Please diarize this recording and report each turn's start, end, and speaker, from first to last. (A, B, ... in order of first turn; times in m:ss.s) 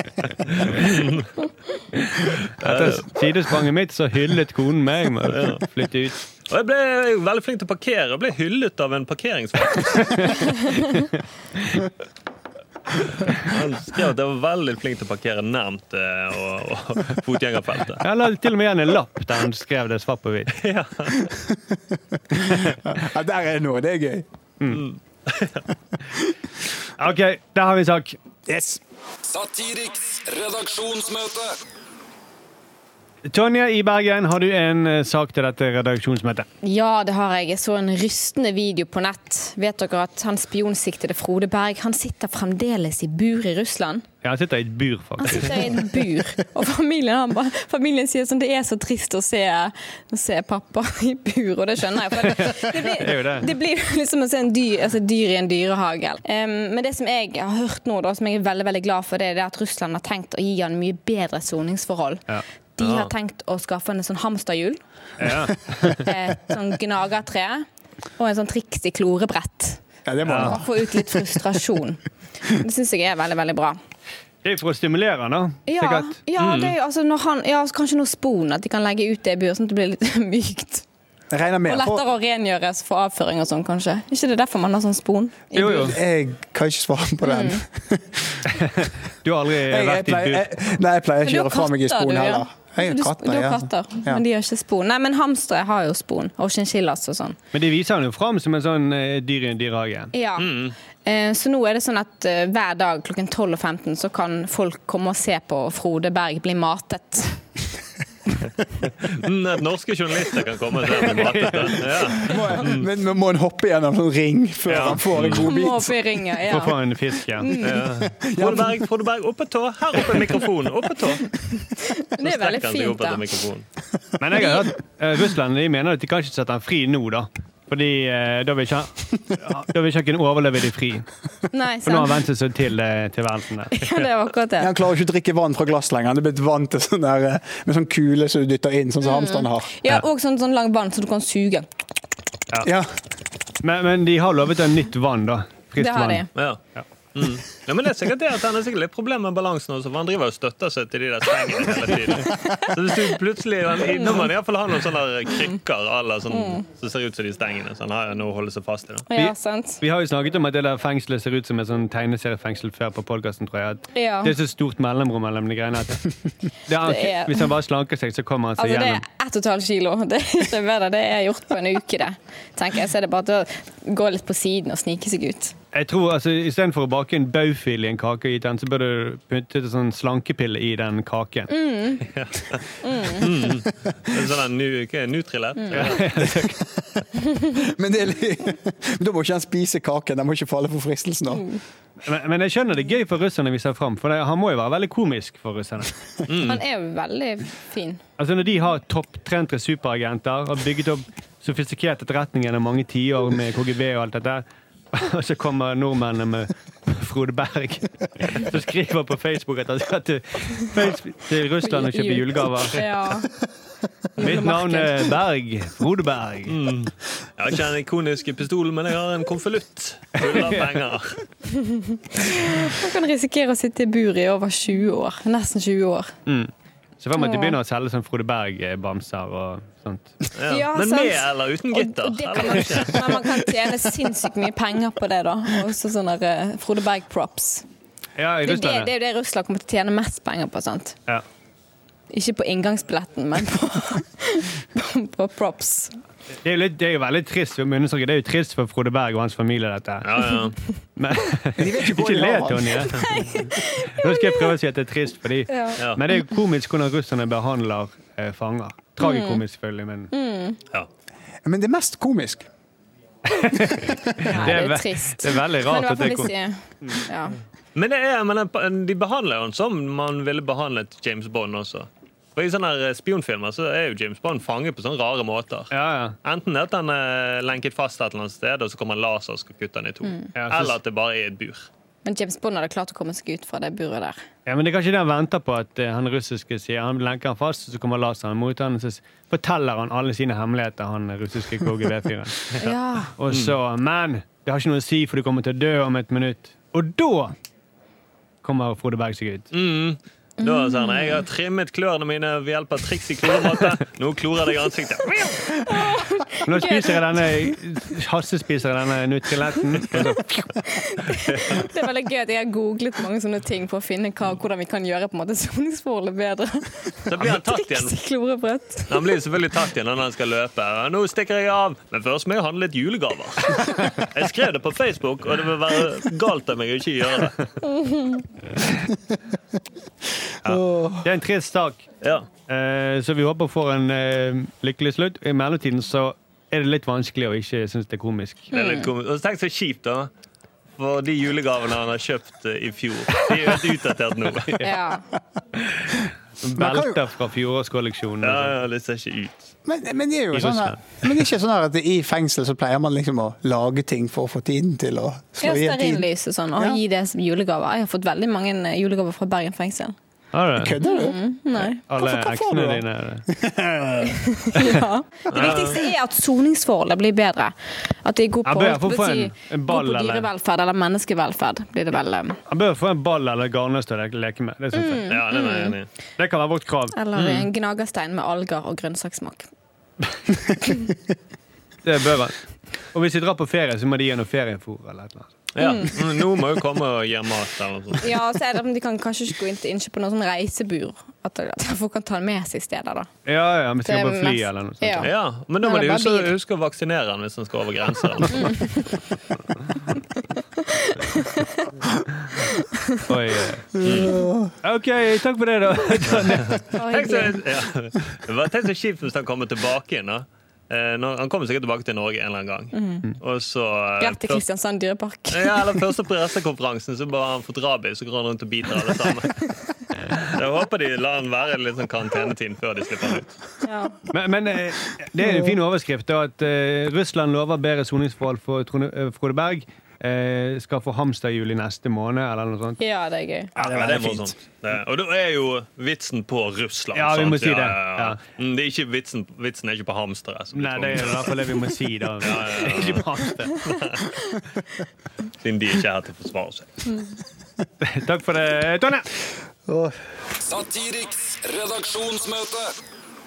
0:00.4-0:01.3 A
0:00.6-0:00.9 B
0:01.9-0:06.2 B
0:02.6-0:03.2 A
0:05.3-0:05.6 A
0:06.5-0:10.4 A
0:10.0-0:11.0 B
0:11.6-0:11.9 B
0:13.1-0:18.0 A
0:18.0-0:20.5 B
0:20.5-0:21.3 A
0:21.3-0:24.3 C
0:24.7-0:25.6 A
0:27.0-0:28.2 B
0:28.5-0:28.8 C
0:29.3-0:31.6 D
0:33.3-0:36.5 B
0:36.6-0:44.1 E
0:44.2-0:45.8 B
0:45.2-1:02.2 E
0:52.2-0:53.5 B
1:02.8-1:04.8 E
1:02.8-1:03.1 A
1:05.2-1:06.0 B
1:05.9-1:07.7 E
1:08.2-1:09.8 E
1:10.1-1:11.6 C
1:10.2-1:10.6 B
1:10.4-1:13.8 E
1:14.4-1:16.2 B
1:15.7-1:20.8 E
1:16.4-1:16.8 A
1:21.3-1:22.0 C
1:21.7-1:25.9 E
1:25.5-1:26.0 B
1:25.6-1:28.8 C
1:27.2-1:27.6 E
1:28.6-1:30.5 B
1:29.6-1:34.2 C
1:31.2-1:37.4 E
1:37.5-1:40.1 B
1:40.1-1:47.4 E
1:40.4-1:40.8 A
1:49.0-1:52.9 A
1:51.0-1:51.8 B
1:52.1-1:56.2 C
1:54.7-1:55.5 A
1:55.3-1:56.8 E
1:56.5-1:57.5 B
1:57.3-1:57.9 E
1:57.6-2:01.3 A
1:58.2-1:58.9 C
2:01.8-2:03.2 E
2:02.2-2:03.7 A
2:04.2-2:11.1 B
2:04.4-2:04.6 E
2:11.5-2:12.2 E
2:11.8-2:13.8 B
2:13.7-2:14.7 E
2:14.6-2:19.7 C
2:19.0-2:21.7 E
2:22.6-2:22.9 C
2:23.6-2:26.8 B
2:25.8-2:26.3 E
2:26.4-2:26.6 A
2:27.2-2:39.1 A
2:32.4-2:32.7 E
2:33.8-2:34.3 E
2:36.3-2:36.6 E
2:39.1-2:39.8 E
2:39.2-2:46.1 B
2:44.0-2:44.4 E
2:46.7-2:49.0 B
2:46.8-2:47.5 E
2:48.6-2:55.6 E
2:55.7-3:01.5 B
3:01.5-3:02.1 E
3:02.1-3:06.0 A
3:02.8-3:03.3 E
3:05.6-3:05.9 E
3:05.7-3:06.6 B
3:06.3-3:06.9 C
3:07.6-3:11.5 C
3:11.3-3:11.6 E
3:12.0-3:15.9 B
3:16.3-3:16.6 A
3:16.4-3:18.0 E
3:18.2-3:32.8 B
3:31.7-3:33.3 E
3:34.2-3:35.2 E
3:34.2-3:36.6 B
3:36.5-3:41.2 A
3:40.2-3:40.7 B
3:41.5-3:46.1 E
3:46.3-3:50.2 B
3:47.2-3:47.6 E
3:50.3-3:53.2 A
3:50.5-3:57.6 E
3:58.2-3:58.9 B
3:58.4-4:01.0 E
4:02.1-4:06.0 E
4:06.4-4:10.4 B
4:10.0-4:10.6 A
4:11.0-4:20.1 B
4:11.6-4:13.1 C
4:13.1-4:14.5 E
4:15.5-4:16.2 E
4:19.0-4:19.4 E
4:20.1-4:20.6 E
4:21.4-4:22.5 C
4:23.3-4:26.3 B
4:24.2-4:27.4 E
4:27.8-4:35.7 A
4:35.7-4:36.2 B
4:36.2-4:41.7 A
4:40.4-4:40.8 B
4:42.0-4:44.2 E
4:44.5-4:52.5 B
4:52.6-4:53.1 E
4:53.2-4:57.3 B
4:58.4-4:59.5 B
4:59.5-5:05.5 A
5:00.4-5:01.2 E
5:05.5-5:07.6 E
5:06.4-5:10.5 B
5:10.7-5:19.2 E
5:11.3-5:11.6 A
5:17.1-5:18.0 A
5:18.9-5:27.4 A
5:27.7-5:28.2 E
5:30.4-5:31.1 C
5:30.4-5:31.8 B
5:32.0-5:32.3 A
5:32.5-5:38.5 B
5:38.5-5:38.9 E
5:38.5-5:40.1 A
5:40.8-5:44.6 A
5:44.6-5:45.0 E
5:45.6-5:48.5 B
5:46.6-5:47.0 C
5:48.2-5:49.5 A
5:49.6-5:56.8 C
5:50.3-5:51.1 B
5:55.4-6:00.0 E
6:00.3-6:00.8 B
6:00.6-6:01.2 C
6:00.8-6:01.8 E
6:01.9-6:03.3 B
6:01.9-6:04.7 C
6:04.4-6:12.4 E
6:05.3-6:05.8 A
6:08.4-6:10.3 B
6:12.5-6:15.1 B
6:14.7-6:15.8 E
6:15.1-6:15.9 A
6:16.2-6:17.0 B
6:16.9-6:19.5 E
6:17.2-6:17.5 A
6:21.8-6:22.4 B
6:22.9-6:25.3 B
6:25.6-6:28.2 A
6:25.6-6:25.9 E
6:28.0-6:33.1 E
6:33.3-6:35.1 B
6:33.8-6:35.1 E
6:35.0-6:38.6 A
6:35.6-6:36.3 E
6:38.3-6:39.0 E
6:40.6-6:41.7 E
6:42.3-6:43.0 E
6:43.1-6:43.7 B
6:43.8-6:44.5 C
6:43.8-6:44.2 A
6:44.6-6:46.6 B
6:46.5-6:54.4 A
6:46.7-6:47.4 E
6:52.7-6:53.1 E
6:54.0-6:55.8 E
6:55.3-6:59.4 A
7:00.3-7:03.4 A
7:03.6-7:04.0 E
7:04.1-7:12.8 B
7:12.8-7:13.5 E
7:13.6-7:14.3 C
7:13.6-7:21.4 A
7:13.6-7:14.2 B
7:16.9-7:18.2 B
7:20.5-7:23.6 B
7:22.2-7:23.1 A
7:23.6-7:24.1 A
7:25.4-7:26.9 A
7:27.8-7:29.1 B
7:29.7-7:30.0 C
7:30.4-7:32.7 D